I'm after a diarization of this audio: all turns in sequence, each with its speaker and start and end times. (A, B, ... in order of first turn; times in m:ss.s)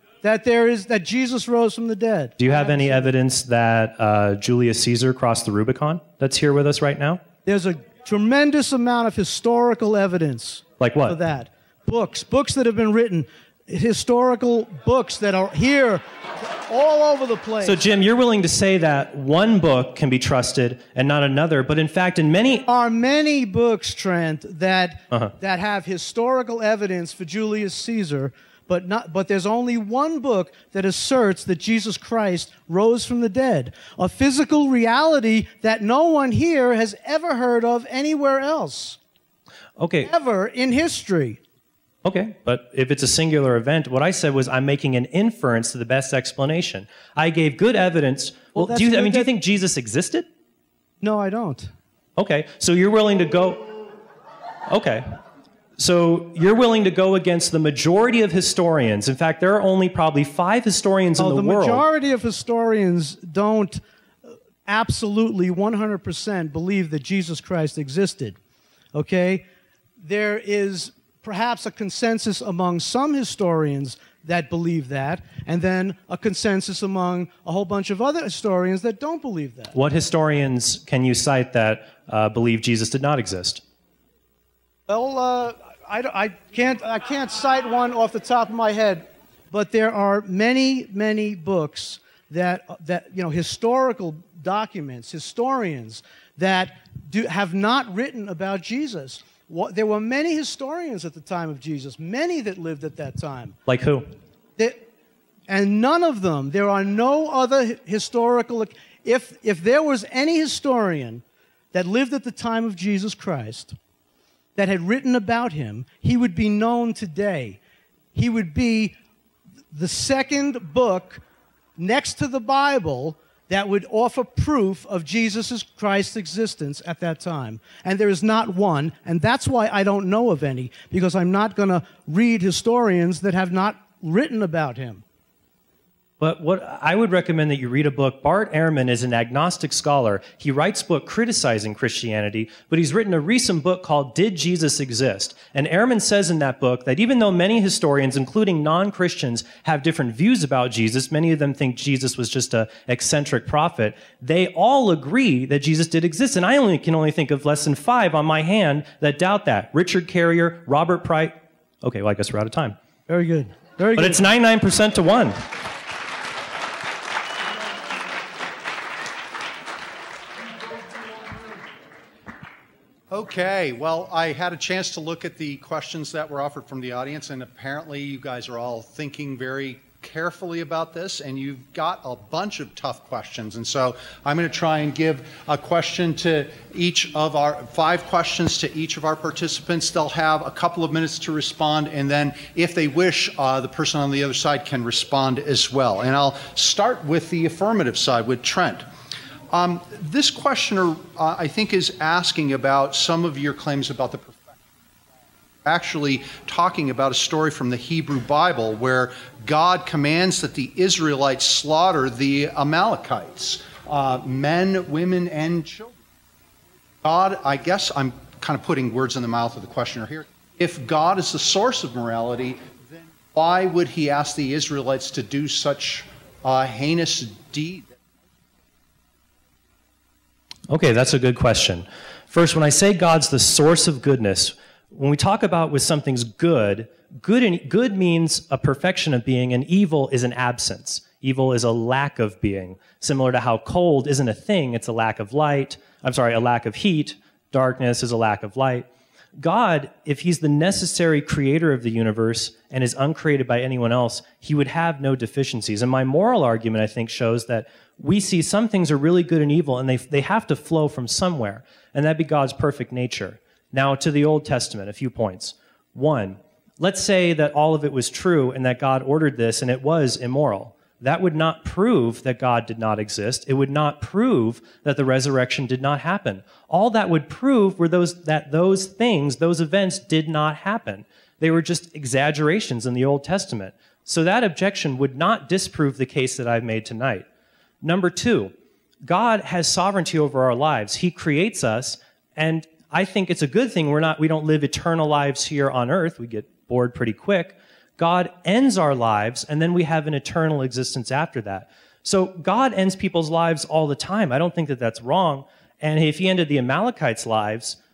0:00.2-0:03.1 A
0:02.4-0:07.2 B
0:07.4-0:17.8 A
0:10.8-0:11.2 B
0:17.6-0:22.6 B
0:22.7-0:39.0 A
0:39.8-0:40.1 B
0:40.0-0:41.4 A
0:42.0-0:50.3 B
0:48.5-0:49.3 A
0:51.0-0:51.7 A
0:52.2-0:53.6 B
0:54.7-0:55.1 B
0:55.8-1:01.8 B
1:01.2-1:08.4 A
1:08.9-1:09.4 A
1:10.0-1:19.7 A
1:19.7-1:23.6 B
1:24.9-1:43.6 A
1:43.7-1:44.1 B
1:44.6-1:44.8 A
1:45.5-1:53.8 A
1:54.5-1:57.6 A
1:58.1-1:58.9 A
1:59.7-2:01.2 A
2:01.8-2:15.0 A
2:16.2-2:42.8 B
2:43.1-2:44.2 A
2:44.0-2:45.4 B
2:53.1-3:18.8 C
3:19.5-3:24.5 C
3:25.6-3:36.0 C
3:37.0-3:48.0 C
3:50.7-4:08.9 B
4:09.4-4:47.2 B
4:47.8-4:48.5 B
4:49.0-5:07.8 B